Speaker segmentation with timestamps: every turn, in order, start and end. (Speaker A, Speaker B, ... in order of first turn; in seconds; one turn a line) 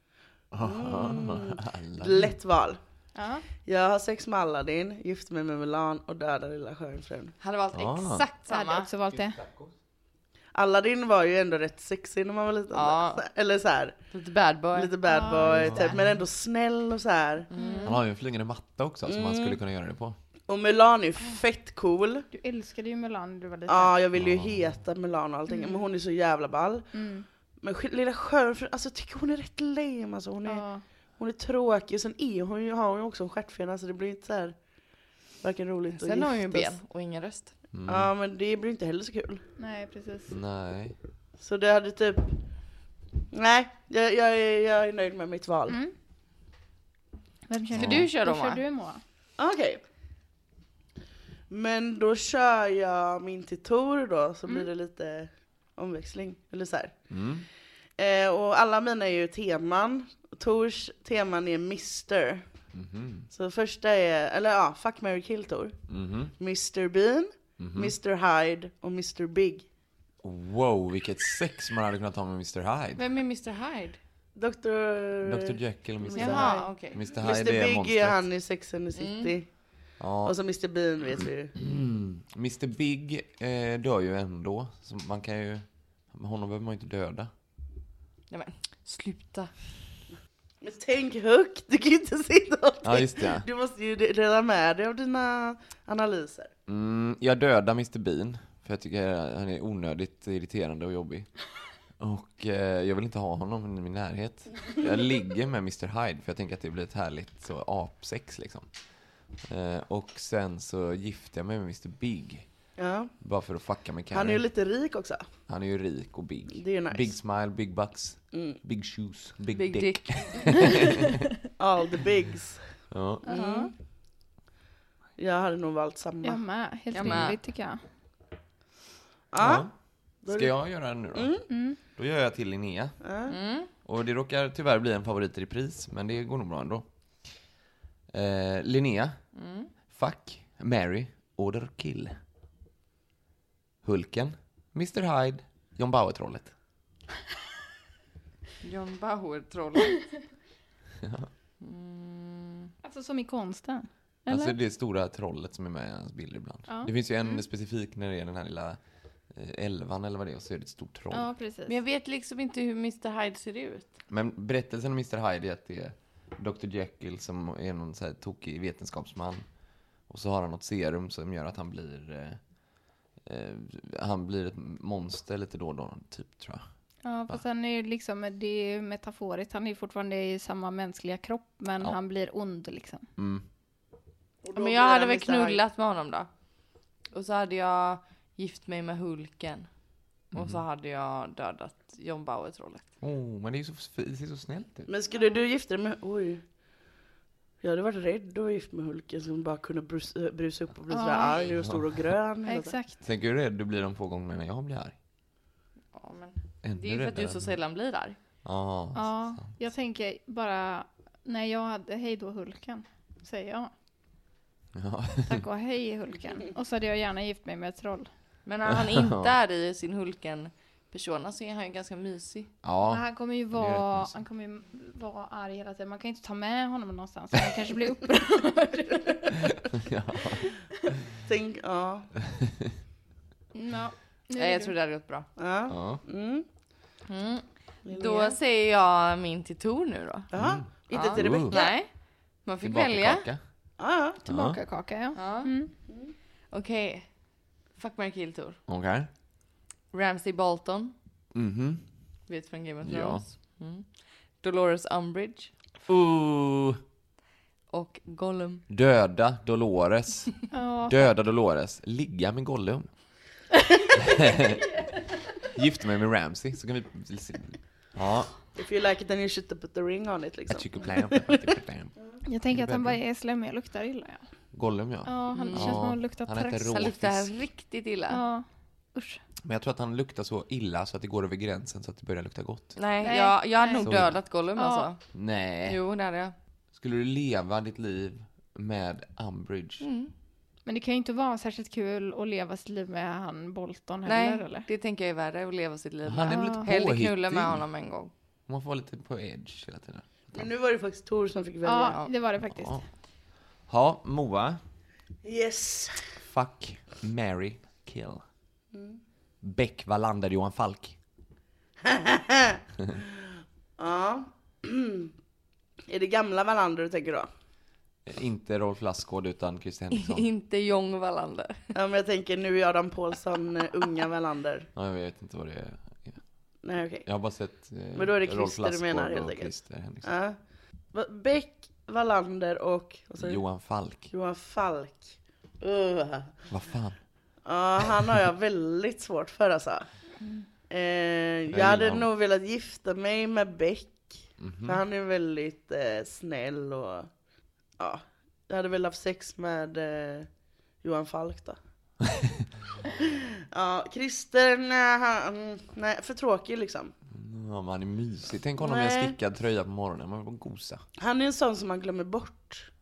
Speaker A: 0.5-2.4
Speaker B: 0.6-2.8
Speaker C: 3.1-3.4
Speaker B: 3.6-7.3
Speaker D: 7.4-8.9
Speaker A: 7.7-8.2
Speaker C: 8.5-9.4
Speaker A: 9.2-9.7
Speaker B: 10.5-14.0
Speaker D: 12.7-13.2
Speaker D: 14.1-14.9
Speaker B: 14.7-17.5
Speaker C: 15.0-16.0
Speaker A: 15.4-16.2
Speaker D: 17.5-18.0
Speaker C: 17.5-18.0
Speaker A: 17.8-20.2
Speaker B: 19.0-19.6
Speaker B: 20.5-22.3
Speaker C: 22.3-23.9
Speaker B: 23.7-26.9
Speaker A: 24.1-24.8
Speaker C: 25.5-25.9
Speaker C: 26.9-27.2
Speaker B: 27.6-34.6
Speaker C: 30.4-30.8
Speaker B: 35.4-36.7
Speaker D: 36.0-37.5
Speaker A: 37.7-38.1
Speaker B: 37.9-39.4
Speaker C: 39.6-40.3
Speaker A: 40.3-41.0
Speaker B: 41.4-42.4
Speaker B: 43.3-45.8
Speaker C: 45.7-45.9
Speaker C: 47.5-49.0
Speaker A: 47.7-48.1
Speaker D: 47.7-48.6
Speaker B: 49.4-49.8
Speaker B: 51.5-57.0
Speaker A: 57.1-57.5
Speaker B: 58.0-62.5
Speaker A: 62.7-63.3
Speaker B: 63.3-65.8
Speaker A: 65.9-66.3
Speaker B: 66.4-69.7
Speaker A: 67.6-68.0
Speaker A: 70.2-73.1
Speaker D: 73.0-74.0
Speaker B: 74.3-81.5
Speaker A: 75.2-78.2
Speaker D: 76.1-77.0
Speaker C: 76.2-76.7
Speaker D: 78.9-79.4
Speaker A: 80.0-80.3
Speaker A: 81.5-87.3
Speaker D: 88.3-89.5
Speaker B: 90.6-96.5
Speaker A: 92.8-93.5
Speaker A: 96.7-101.3
Speaker A: 102.0-108.7
Speaker A: 109.4-112.5
Speaker B: 112.8-113.1
Speaker A: 113.2-114.4
Speaker B: 114.1-115.3
Speaker A: 115.5-121.3
Speaker B: 116.5-117.2
Speaker B: 118.3-118.6
Speaker D: 119.5-120.6
Speaker B: 121.6-123.7
Speaker A: 122.9-123.2
Speaker C: 123.2-123.7
Speaker B: 125.2-126.4
Speaker C: 126.2-127.8
Speaker D: 126.9-127.4
Speaker B: 129.3-129.7
Speaker A: 129.4-129.7
Speaker B: 130.2-131.4
Speaker A: 130.3-131.3
Speaker C: 131.5-131.8
Speaker A: 131.9-133.0
Speaker B: 133.0-133.3
Speaker D: 133.3-133.7
Speaker A: 133.8-136.8
Speaker A: 138.1-139.2
Speaker D: 139.3-139.7
Speaker A: 139.9-142.2
Speaker A: 143.8-146.5
Speaker D: 148.6-150.2
Speaker A: 151.0-151.3
Speaker D: 151.6-152.7
Speaker C: 152.8-154.5
Speaker A: 154.3-158.8
Speaker C: 156.7-157.3
Speaker A: 159.3-161.3
Speaker C: 161.1-161.8
Speaker D: 161.7-163.9
Speaker A: 164.1-169.4
Speaker A: 170.1-172.4
Speaker A: 173.2-176.6
Speaker C: 177.0-183.1
Speaker A: 183.2-183.4
Speaker B: 184.4-185.6
Speaker D: 184.5-186.3
Speaker D: 187.1-189.7
Speaker A: 190.3-190.6
Speaker D: 190.3-192.9
Speaker A: 193.0-194.9
Speaker B: 194.9-196.4
Speaker B: 197.6-202.8
Speaker C: 200.9-201.5
Speaker A: 201.5-202.0
Speaker C: 202.4-203.0
Speaker A: 203.0-204.9
Speaker D: 205.9-208.2
Speaker A: 206.6-207.5
Speaker A: 208.4-209.6
Speaker C: 208.9-213.7
Speaker A: 214.7-215.4
Speaker C: 215.3-218.1
Speaker D: 218.4-222.5
Speaker A: 218.9-219.3
Speaker A: 222.6-224.1
Speaker C: 222.9-229.3
Speaker A: 229.4-230.5
Speaker B: 231.2-232.1
Speaker A: 232.3-232.7
Speaker C: 233.5-234.7
Speaker D: 234.3-235.3
Speaker B: 235.4-236.4
Speaker A: 235.7-236.0
Speaker D: 237.1-240.3
Speaker B: 237.8-238.4
Speaker B: 240.3-241.7
Speaker A: 240.3-241.6
Speaker D: 240.9-241.9
Speaker D: 242.4-243.3
Speaker A: 242.6-243.4
Speaker B: 243.8-244.2
Speaker C: 244.2-245.7
Speaker A: 244.3-244.6
Speaker D: 245.1-245.5
Speaker D: 246.5-247.1
Speaker D: 247.7-248.6
Speaker A: 248.7-249.1
Speaker D: 249.9-250.9
Speaker A: 251.3-251.8
Speaker D: 252.3-255.5
Speaker A: 252.8-253.2
Speaker A: 255.9-256.8
Speaker D: 257.7-258.6
Speaker A: 258.7-260.3
Speaker C: 260.5-261.1
Speaker A: 260.9-262.9
Speaker A: 263.9-264.8
Speaker A: 265.4-268.5
Speaker B: 268.5-271.5
Speaker A: 270.5-271.9
Speaker C: 272.2-274.2
Speaker A: 272.5-273.0
Speaker A: 274.5-277.3
Speaker C: 275.0-276.9
Speaker D: 275.3-275.9
Speaker D: 276.7-278.2
Speaker C: 278.1-279.2
Speaker A: 279.4-282.8
Speaker D: 282.8-285.1
Speaker C: 283.0-283.9
Speaker A: 283.8-284.3
Speaker C: 284.6-284.9
Speaker A: 285.1-285.8
Speaker D: 285.6-286.4
Speaker A: 286.7-289.9
Speaker D: 289.8-290.1
Speaker C: 290.6-294.7
Speaker D: 294.0-298.1
Speaker A: 296.1-297.6
Speaker C: 296.2-296.7
Speaker A: 298.5-300.5
Speaker B: 300.3-302.0
Speaker C: 301.6-302.8
Speaker A: 302.5-302.8
Speaker A: 303.7-304.6
Speaker B: 305.2-306.1
Speaker A: 306.2-308.2
Speaker B: 308.7-309.0
Speaker A: 309.4-311.0
Speaker B: 311.8-312.6
Speaker B: 313.8-315.1
Speaker B: 315.9-317.3
Speaker A: 318.1-320.3
Speaker D: 319.9-321.6
Speaker B: 321.7-324.7
Speaker A: 324.7-326.2
Speaker B: 326.6-327.1
Speaker A: 327.0-330.1
Speaker B: 327.9-330.4
Speaker B: 330.9-333.4
Speaker A: 333.2-334.1
Speaker B: 334.1-336.4
Speaker A: 336.5-337.0
Speaker B: 337.4-339.9
Speaker B: 340.7-347.1
Speaker A: 341.5-342.1
Speaker A: 344.4-344.8
Speaker B: 347.8-350.3
Speaker B: 350.8-351.6
Speaker B: 353.0-356.9
Speaker A: 357.1-360.8
Speaker B: 358.6-359.1
Speaker B: 361.0-362.7